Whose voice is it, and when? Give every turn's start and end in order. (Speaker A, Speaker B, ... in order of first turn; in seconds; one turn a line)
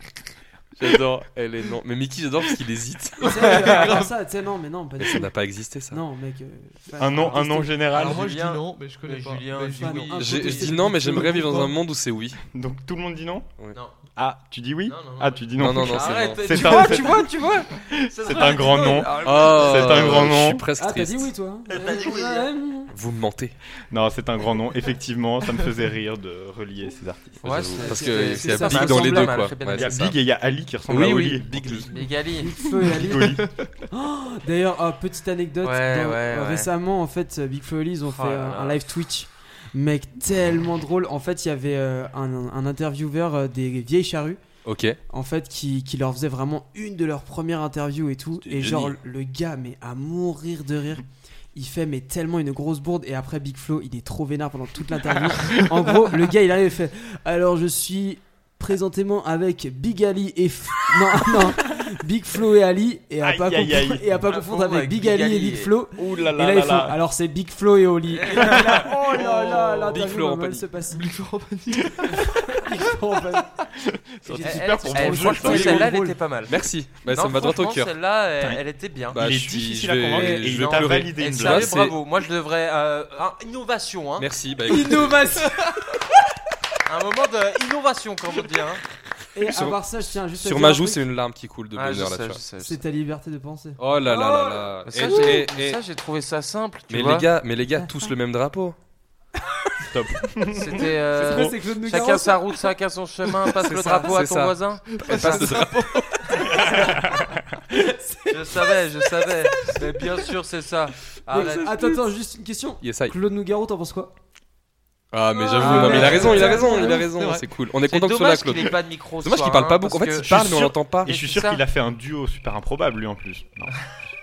Speaker A: 0.8-3.8
Speaker B: 3.2-5.3
Speaker C: 3.4-4.1
Speaker A: 5.0-6.0
Speaker B: 5.9-7.9
Speaker D: 7.0-8.3
Speaker C: 7.9-11.7
Speaker E: 7.9-10.7
Speaker B: 9.8-11.7
Speaker A: 10.2-12.4
Speaker D: 12.5-13.5
Speaker D: 14.1-20.6
Speaker E: 14.8-20.3
Speaker A: 15.6-16.8
Speaker A: 19.2-21.3
Speaker B: 20.8-22.9
Speaker E: 21.7-22.5
Speaker A: 22.9-23.5
Speaker D: 23.9-27.4
Speaker A: 27.4-30.1
Speaker E: 27.4-30.2
Speaker B: 27.8-29.4
Speaker D: 29.7-31.9
Speaker A: 30.9-31.9
Speaker E: 31.9-32.5
Speaker B: 32.4-44.4
Speaker D: 32.8-33.5
Speaker C: 33.4-33.7
Speaker E: 35.6-36.7
Speaker E: 38.0-38.8
Speaker A: 44.6-45.0
Speaker B: 45.1-71.1
Speaker D: 48.5-48.9
Speaker D: 63.2-64.1
Speaker E: 64.3-65.7
Speaker D: 66.0-67.0
Speaker E: 68.1-68.7
Speaker D: 68.3-69.9
Speaker A: 69.5-70.7
Speaker C: 70.9-72.2
Speaker B: 72.1-73.6
Speaker D: 73.7-75.9
Speaker B: 74.2-76.2
Speaker E: 74.4-76.5
Speaker A: 75.4-75.9
Speaker A: 76.5-77.9
Speaker E: 77.1-79.2
Speaker D: 78.4-81.8
Speaker A: 79.1-82.0
Speaker E: 80.1-84.3
Speaker A: 84.2-85.3
Speaker B: 84.7-85.7
Speaker E: 86.8-88.8
Speaker B: 89.3-91.0
Speaker A: 89.4-89.8
Speaker A: 90.3-92.4
Speaker E: 91.7-92.8
Speaker B: 92.6-95.4
Speaker A: 93.8-95.8
Speaker E: 94.8-97.2
Speaker A: 96.9-98.8
Speaker D: 99.9-101.6
Speaker E: 100.5-105.6
Speaker B: 101.2-102.5
Speaker A: 103.6-105.9
Speaker C: 105.0-106.4
Speaker B: 106.4-107.1
Speaker D: 106.5-107.3
Speaker B: 107.7-108.9
Speaker E: 108.3-112.0
Speaker B: 111.3-114.1
Speaker A: 112.8-113.1
Speaker A: 115.1-121.1
Speaker B: 115.3-117.0
Speaker E: 115.6-117.0
Speaker C: 115.7-117.5
Speaker E: 117.9-120.3
Speaker D: 120.2-123.8
Speaker E: 121.0-121.6